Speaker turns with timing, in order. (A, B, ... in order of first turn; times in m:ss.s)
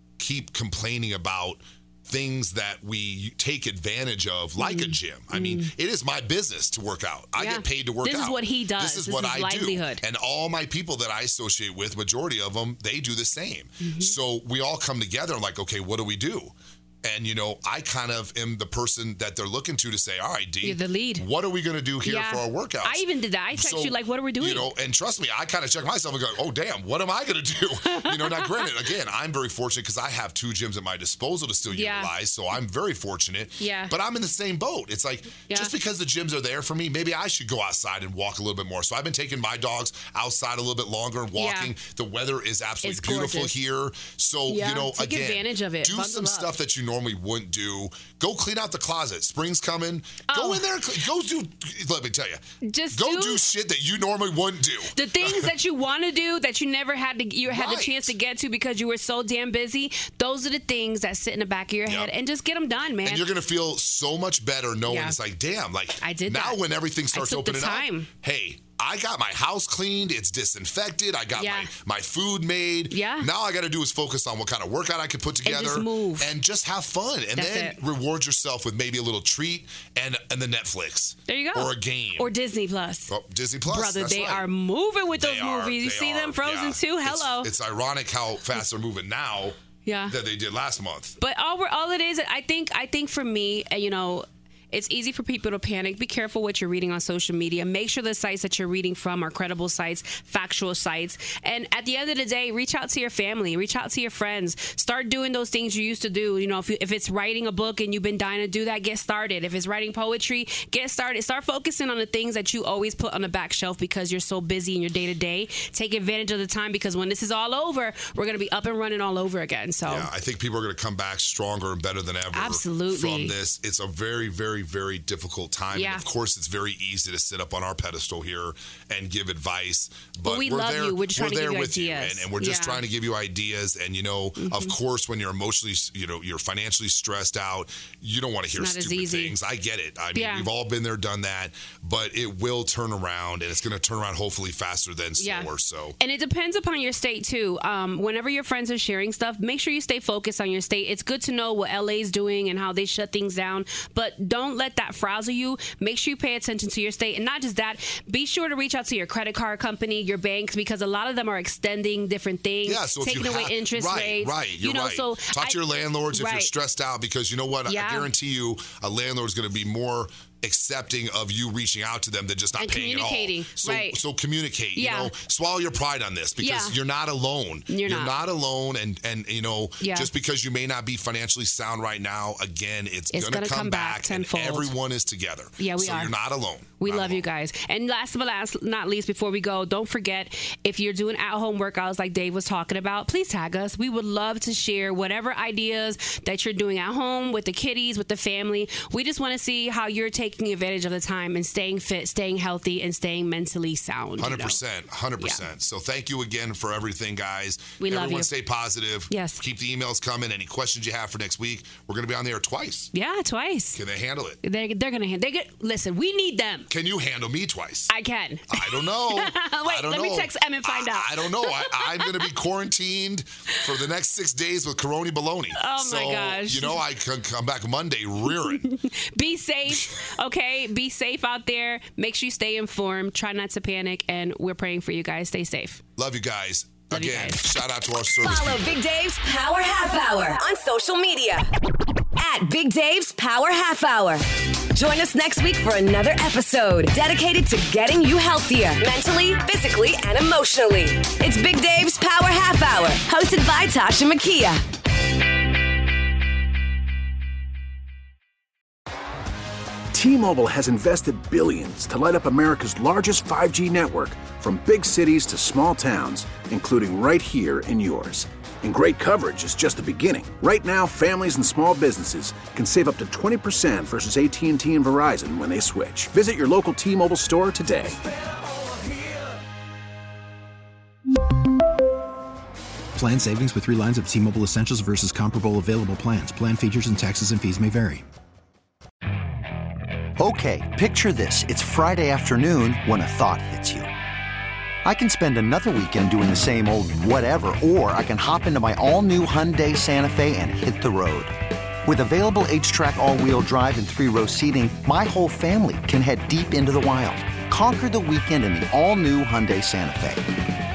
0:00.2-0:55.5 A
0:04.6-0:05.7 B
0:07.4-0:10.0 B
0:13.8-0:14.1 B
0:20.6-0:21.3 B
0:22.0-0:24.7 B
0:27.8-0:28.7 B
0:31.7-0:32.1 B
0:33.6-0:33.9 B
0:35.5-0:35.7 B
0:41.4-0:41.7 B
0:42.8-0:43.5 B
0:44.5-0:46.5 B
0:50.3-0:50.7 B
0:52.6-0:53.4 B
0:54.9-1:03.3 B
0:57.5-0:58.1 A
1:01.9-1:02.1 A
1:03.0-1:22.3 A
1:04.9-1:05.2 B
1:06.0-1:08.1 B
1:11.4-1:11.7 B
1:12.9-1:13.3 B
1:15.4-1:16.3 B
1:17.4-1:17.8 B
1:21.3-1:23.1 B
1:23.1-1:24.5 A
1:23.7-1:27.5 B
1:25.2-1:29.6 A
1:29.9-1:30.2 B
1:30.1-1:31.2 A
1:31.2-2:00.1 B
1:59.9-2:26.0 A
2:02.3-2:03.4 B
2:05.7-2:06.0 B
2:10.2-2:12.8 B
2:14.4-2:14.8 B
2:18.6-2:19.4 B
2:20.2-2:20.5 B
2:25.2-2:45.6 B
2:42.6-3:07.3 A
2:46.1-2:46.5 B
2:47.7-2:48.1 B
2:52.6-2:54.0 B
2:54.8-2:55.1 B
2:56.4-2:56.8 B
2:57.7-2:58.1 B
2:59.8-3:00.1 B
3:03.1-3:04.7 B
3:05.6-3:06.1 B
3:06.8-3:24.6 B
3:24.2-3:32.9 A
3:27.8-3:28.3 B
3:29.1-3:29.4 B
3:32.9-3:33.8 B
3:33.8-3:34.4 A
3:34.4-3:36.7 B
3:36.7-3:37.9 A
3:37.9-3:42.3 B
3:38.5-3:48.6 A
3:45.6-3:46.8 B
3:48.3-3:55.8 B
3:56.0-3:58.7 A
3:56.9-3:57.4 B
3:58.2-4:01.5 C
4:02.2-4:14.6 C
4:19.9-4:38.0 D
4:43.0-4:48.1 E
4:50.2-4:53.9 F
4:54.8-5:10.4 F